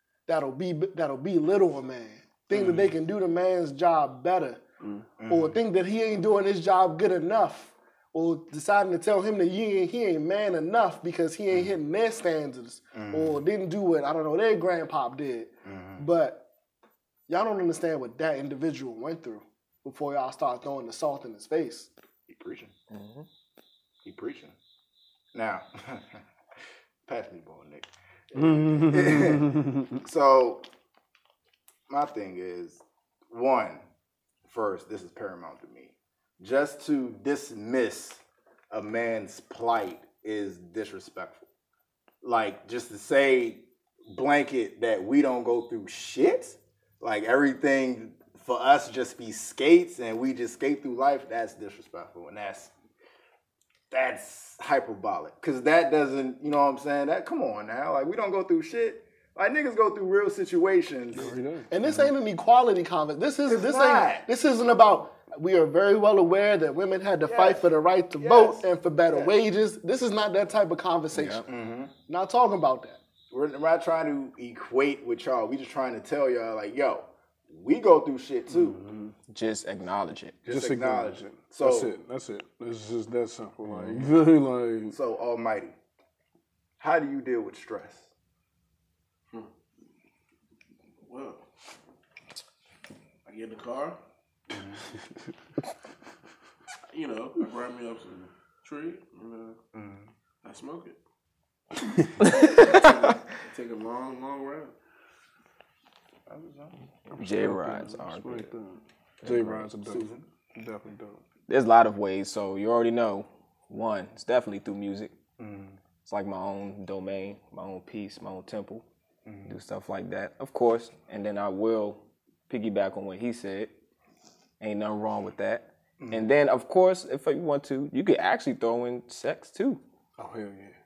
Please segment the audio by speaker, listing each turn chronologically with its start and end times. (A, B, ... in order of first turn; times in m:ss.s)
0:00.3-0:04.6 A
0:02.5-0:02.8 B
0:04.8-0:05.1 C
0:05.2-0:05.6 B
0:05.3-0:16.4 A
0:12.9-0:13.4 B
0:15.6-0:16.0 B
0:17.3-0:21.9 A
0:22.3-0:22.7 B
0:22.9-0:23.3 D
0:24.0-0:24.6 B
0:25.3-0:26.2 B
0:27.1-0:30.6 B
0:28.4-0:29.9 C
0:31.9-0:33.8 B
0:34.4-0:41.5 B
0:42.2-0:52.7 B
0:53.9-1:01.3 B
1:01.1-1:01.7 C
1:01.7-1:11.5 A
1:03.4-1:04.3 B
1:07.3-1:09.4 B
1:11.2-1:11.5 D
1:11.5-1:11.9 B
1:12.1-1:13.0 A
1:13.3-1:18.8 B
1:18.5-1:19.1 C
1:19.3-1:20.4 D
1:20.5-1:21.9 B
1:20.5-1:25.0 C
1:24.9-1:25.8 B
1:26.8-1:28.1 B
1:31.0-1:31.4 E
1:33.2-1:34.0 E
1:34.5-1:34.8 B
1:36.9-1:39.6 E
1:39.7-1:40.1 B
1:40.4-1:41.0 E
1:42.2-1:42.8 D
1:42.4-1:44.7 E
1:46.3-1:46.8 B
1:47.1-1:51.2 C
1:47.2-1:48.5 D
1:49.2-1:49.7 D
1:49.9-1:50.2 B
1:51.5-1:55.1 D
1:55.4-1:55.8 B
1:56.0-1:58.8 D
1:59.2-1:59.6 B
1:59.5-2:03.7 D
2:04.6-2:09.8 D
2:06.0-2:06.3 B
2:10.2-2:10.8 C